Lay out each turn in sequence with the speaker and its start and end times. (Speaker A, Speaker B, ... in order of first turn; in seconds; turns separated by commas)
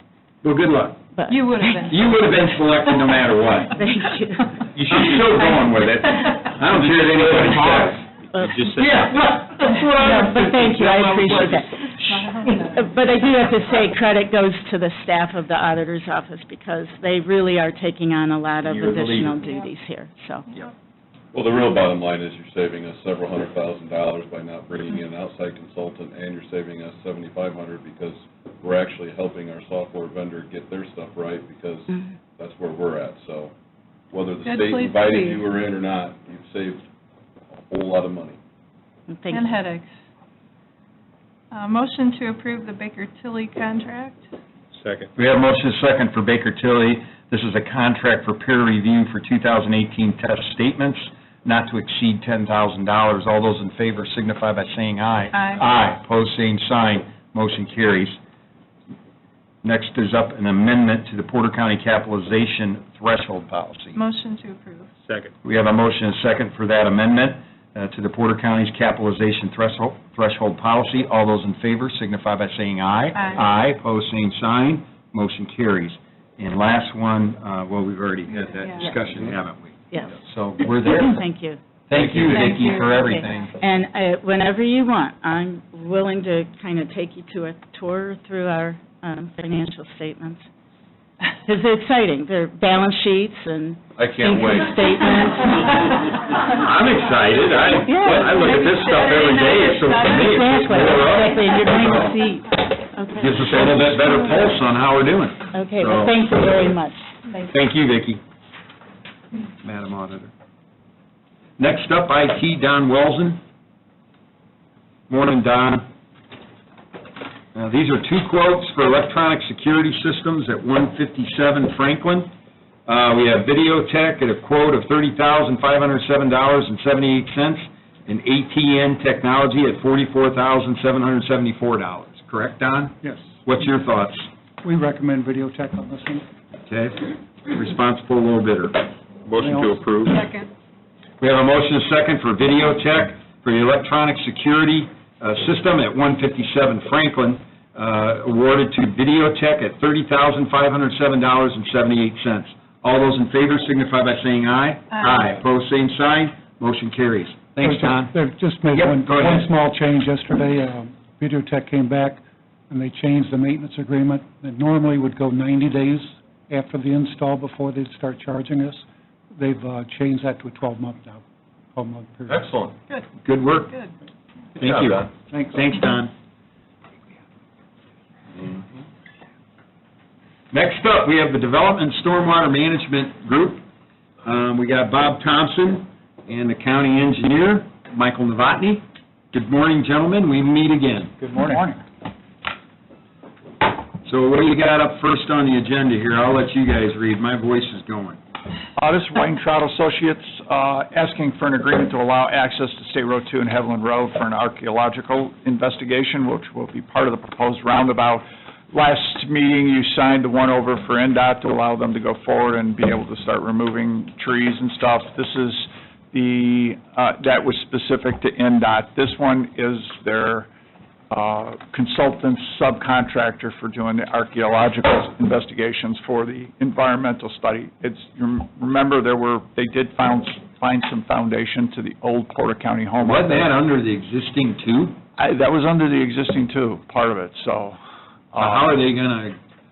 Speaker A: 0.4-1.1, Speaker B: 1.1-2.0, Speaker C: 1.3-3.3, Speaker A: 1.8-3.8, Speaker B: 3.7-4.6, Speaker A: 4.7-8.0, Speaker B: 5.1-5.6, Speaker D: 6.7-9.1, Speaker B: 8.3-8.9, Speaker A: 8.7-11.7, Speaker B: 9.9-11.9, Speaker C: 11.9-12.9, Speaker B: 12.8-20.4, Speaker D: 18.7-19.3, Speaker E: 21.3-33.5, Speaker E: 34.1-36.9, Speaker C: 34.3-35.5, Speaker E: 37.5-38.4, Speaker B: 39.1-39.5, Speaker C: 39.3-39.9, Speaker C: 41.5-44.2, Speaker D: 44.8-45.1, Speaker A: 45.2-58.2, Speaker C: 55.3-55.6, Speaker A: 59.6-64.0, Speaker C: 64.0-64.9, Speaker A: 65.4-81.3, Speaker C: 73.1-73.4, Speaker C: 78.5-78.9, Speaker B: 80.9-81.6, Speaker A: 81.9-83.5, Speaker C: 82.3-83.0, Speaker B: 82.3-90.5, Speaker B: 91.4-96.2, Speaker E: 94.0-95.0, Speaker A: 96.3-102.2, Speaker B: 97.9-98.3, Speaker C: 98.1-100.9, Speaker B: 100.2-104.2, Speaker A: 103.2-106.2, Speaker B: 105.5-107.5, Speaker A: 107.4-108.2, Speaker A: 109.6-110.3, Speaker A: 111.6-113.4, Speaker A: 115.1-115.8, Speaker A: 117.5-122.3, Speaker A: 122.9-134.3, Speaker F: 133.0-133.4, Speaker F: 134.6-136.3, Speaker A: 136.6-138.9, Speaker D: 139.3-140.2, Speaker F: 139.3-140.1, Speaker C: 140.0-140.5, Speaker A: 141.2-158.2, Speaker C: 154.9-155.2, Speaker F: 157.6-171.2, Speaker A: 158.7-159.5, Speaker F: 171.7-172.5, Speaker E: 172.3-172.7, Speaker A: 173.2-173.7, Speaker A: 174.6-176.1, Speaker E: 174.7-175.1, Speaker F: 175.3-175.6, Speaker A: 180.5-183.6, Speaker A: 184.2-191.2, Speaker F: 191.3-191.7, Speaker A: 194.0-198.2, Speaker G: 198.8-220.5, Speaker G: 221.1-233.5, Speaker A: 233.0-235.0, Speaker G: 235.2-237.8, Speaker G: 238.3-238.8, Speaker A: 238.4-239.4